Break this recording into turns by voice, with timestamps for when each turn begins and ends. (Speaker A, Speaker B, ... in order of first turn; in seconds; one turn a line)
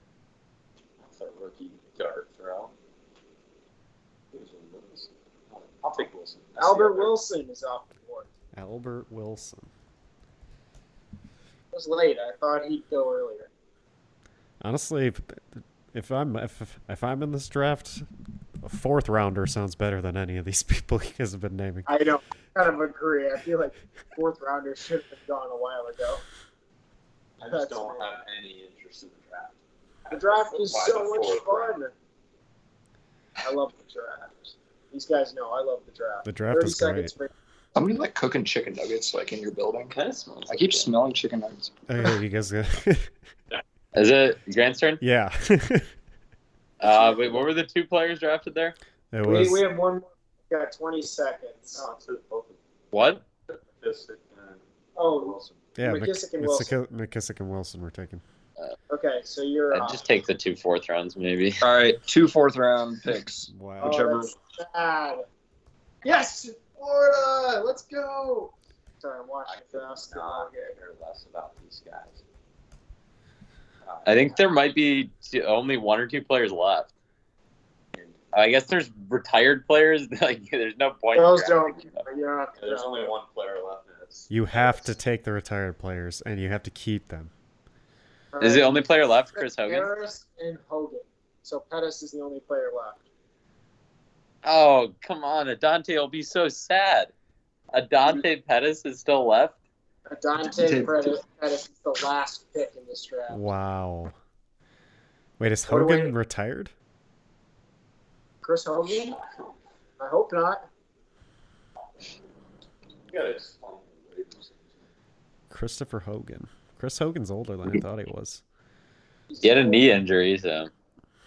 Speaker A: 1.0-2.7
Speaker A: 4.3-7.2
Speaker B: 6.6-8.3
Speaker C: 8.5-9.7
Speaker B: 11.7-13.5
Speaker C: 14.6-18.1
Speaker C: 18.6-21.9
Speaker B: 21.9-26.2
Speaker A: 27.4-31.7
Speaker B: 27.5-28.1
Speaker B: 30.1-31.9
Speaker B: 33.4-37.3
Speaker C: 36.2-37.1
Speaker D: 37.7-39.9
Speaker A: 39.9-40.9
Speaker D: 40.5-41.7
Speaker C: 41.9-43.1
Speaker E: 43.9-45.0
Speaker C: 45.0-45.9
Speaker E: 46.8-48.8
Speaker C: 49.1-49.6
Speaker B: 49.2-51.9
Speaker A: 51.8-52.5
Speaker E: 52.9-53.2
Speaker A: 53.5-55.6
Speaker B: 55.0-56.7
Speaker C: 55.8-58.2
Speaker B: 58.9-60.0
Speaker E: 59.7-61.6
Speaker D: 61.6-64.3
Speaker C: 63.5-64.0
Speaker B: 63.8-65.2
Speaker B: 66.0-70.7
Speaker A: 69.5-72.2
Speaker A: 73.8-74.4
Speaker E: 74.0-76.9
Speaker E: 78.3-82.0
Speaker B: 81.1-83.2
Speaker A: 82.6-84.8
Speaker C: 84.3-87.3
Speaker B: 88.3-93.0
Speaker E: 88.4-89.9
Speaker E: 94.4-97.1
Speaker E: 97.7-99.5
Speaker B: 100.1-103.5
Speaker A: 100.5-101.1
Speaker C: 103.3-104.1
Speaker C: 105.4-106.7
Speaker B: 105.7-106.1
Speaker B: 108.4-109.2
Speaker B: 110.0-110.7
Speaker A: 113.1-114.6
Speaker C: 115.5-118.4
Speaker B: 119.3-119.9
Speaker E: 119.4-120.7